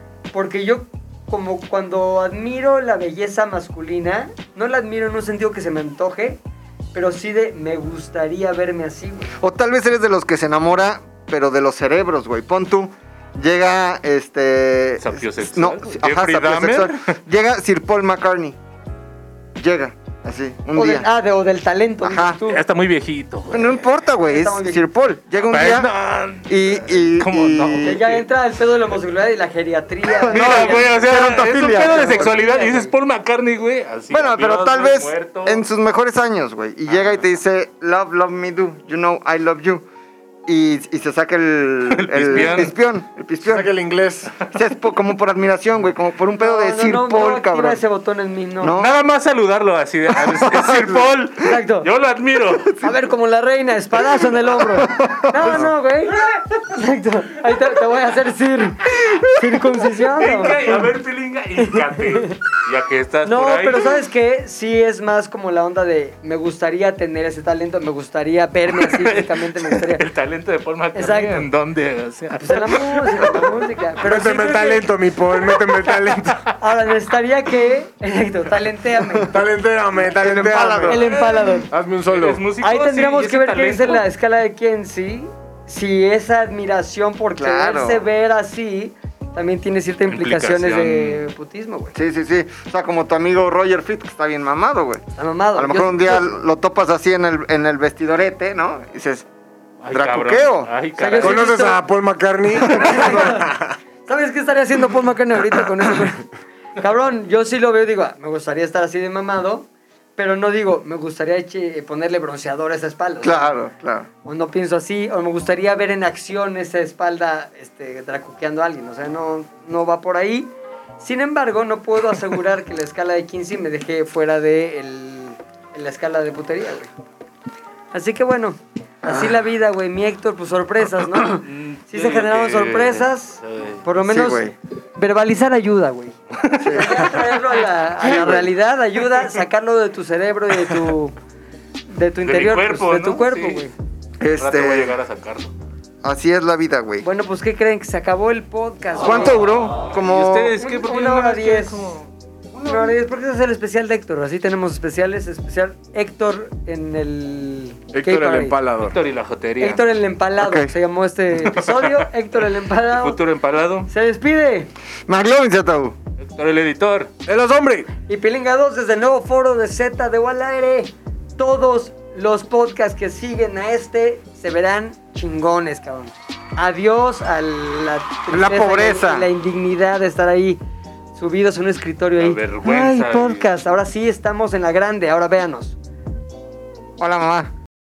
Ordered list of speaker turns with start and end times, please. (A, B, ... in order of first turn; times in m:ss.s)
0:00.3-0:06.4 A
0:06.9-0:09.3 A
0:09.4-0:18.6 B
0:15.0-0:17.2 C
0:19.6-0:21.1 B
0:20.8-0:22.6 A
0:22.0-0:22.4 B
0:22.5-0:23.8 C
0:23.5-0:25.9 B
0:24.2-0:24.9 A
0:25.5-0:28.2 C
0:26.5-0:28.0 B
0:27.8-0:30.9 A
0:30.1-0:32.3 B
0:30.2-0:35.6 C
0:31.8-0:32.9 A
0:34.1-0:39.8 B
0:40.5-0:43.7 B
0:41.9-0:42.7 C
0:43.4-0:44.3 D
0:44.5-0:47.8 B
0:46.4-0:48.7 A
0:48.6-0:49.0 B
0:48.8-0:52.7 C
0:50.1-0:51.1 B
0:51.4-0:51.9 A
0:52.5-0:53.0 B
0:52.8-1:00.8 A
0:54.2-0:55.7 B
0:55.4-0:55.7 C
0:59.9-1:03.9 C
1:01.6-1:02.4 A
1:03.2-1:10.0 A
1:08.7-1:13.5 C
1:10.9-1:11.5 A
1:12.4-1:14.9 A
1:14.0-1:16.5 D
1:15.8-1:16.2 C
1:16.6-1:19.4 A
1:19.3-1:21.1 D
1:19.9-1:21.1 B
1:20.9-1:21.7 A
1:21.1-1:24.0 C
1:21.7-1:22.4 D
1:22.6-1:32.0 A
1:27.4-1:28.0 B
1:30.1-1:31.2 C
1:31.9-1:35.0 B
1:35.2-1:36.4 A
1:35.6-1:39.3 B
1:39.8-1:41.5 C
1:39.9-1:40.7 B
1:41.0-1:41.8 A
1:41.2-1:43.8 D
1:42.6-1:43.5 A
1:44.1-1:53.6 A
1:53.2-1:54.1 B
1:54.2-2:06.9 A
2:07.9-2:21.2 A
2:09.0-2:09.3 B
2:11.3-2:13.8 C
2:14.0-2:14.6 B
2:16.3-2:17.2 C
2:16.6-2:17.0 B
2:18.0-2:18.5 B
2:21.9-2:23.7 A
2:22.2-2:23.7 C
2:24.2-2:25.0 B
2:24.4-2:25.5 C
2:26.0-2:27.1 B
2:27.0-2:29.4 A
2:29.0-2:30.6 B
2:30.0-2:32.1 C
2:30.6-2:31.9 A
2:32.5-2:33.0 B
2:32.6-2:38.6 A
2:37.9-2:39.0 D
2:38.8-2:39.8 C
2:39.6-2:43.2 A
2:40.4-2:40.7 B
2:41.4-2:42.1 C
2:42.9-2:43.9 C
2:43.9-2:44.7 A
2:45.1-2:46.0 B
2:46.2-2:47.1 C
2:47.3-2:47.9 D
2:48.1-3:00.6 A
2:58.3-2:59.3 B
3:01.2-3:05.8 A
3:02.2-3:03.5 C
3:07.0-3:07.5 B